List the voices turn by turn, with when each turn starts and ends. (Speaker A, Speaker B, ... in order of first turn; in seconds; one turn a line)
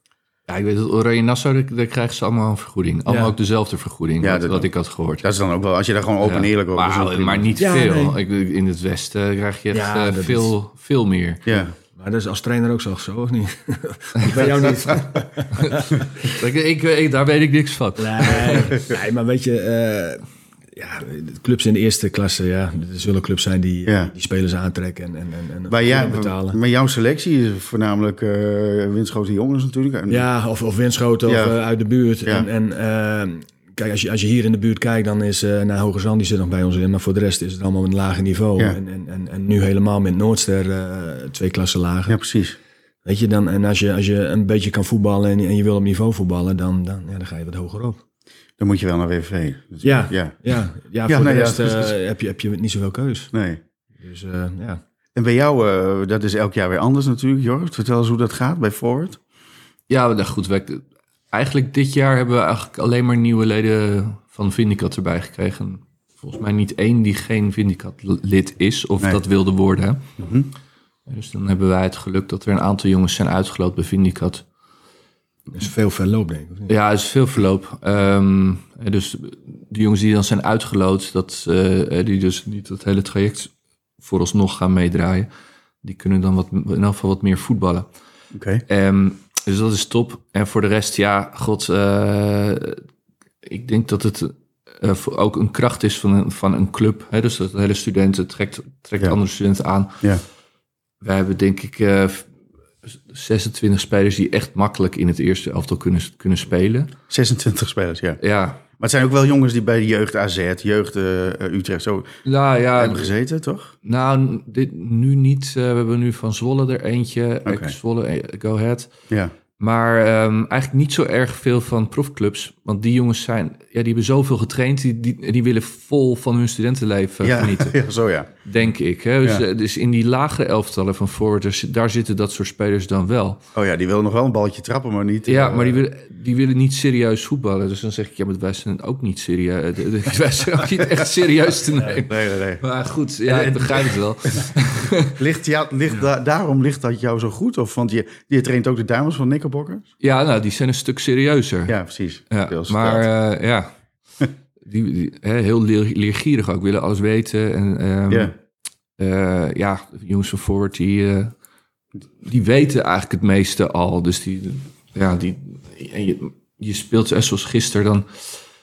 Speaker A: 0.5-5.2
Speaker B: 3.1-3.3
Speaker C: 4.2-4.7
Speaker C: 5.2-7.5
Speaker A: 6.2-11.4
Speaker B: 7.6-8.2
Speaker B: 9.7-10.5
Speaker C: 11.4-11.7
Speaker B: 11.5-16.3
Speaker A: 14.2-14.8
Speaker A: 15.6-18.8
Speaker B: 18.0-26.6
Speaker C: 23.9-24.1
Speaker C: 25.7-30.3
Speaker B: 30.1-42.2
Speaker C: 31.2-31.6
Speaker C: 42.1-42.5
Speaker B: 43.0-48.0
Speaker C: 48.6-50.3
Speaker B: 49.8-53.3
Speaker C: 51.1-51.9
Speaker C: 53.3-53.6
Speaker B: 54.0-54.8
Speaker C: 55.1-59.2
Speaker A: 59.9-70.0
Speaker C: 70.2-70.5
Speaker A: 71.1-74.4
Speaker B: 75.5-76.7
Speaker A: 76.7-83.5
Speaker A: 84.0-85.3
Speaker A: 85.8-87.9
Speaker C: 88.3-88.6
Speaker A: 88.7-92.8
Speaker A: 93.4-100.0
Speaker A: 101.0-102.3
Speaker A: 103.1-106.9
Speaker C: 107.1-108.2
Speaker A: 108.2-108.6
Speaker C: 108.8-112.1
Speaker A: 112.2-113.1
Speaker C: 112.8-113.7
Speaker A: 113.8-118.9
Speaker C: 117.5-117.8
Speaker A: 119.6-127.8
Speaker C: 127.2-128.3
Speaker A: 128.4-133.4
Speaker C: 133.5-135.8
Speaker A: 135.2-145.1
Speaker C: 142.1-142.6
Speaker C: 143.3-143.8
Speaker C: 145.2-149.9
Speaker A: 150.0-151.8
Speaker C: 151.7-153.1
Speaker A: 152.3-153.7
Speaker A: 154.6-158.3
Speaker A: 159.0-161.3
Speaker A: 162.2-168.3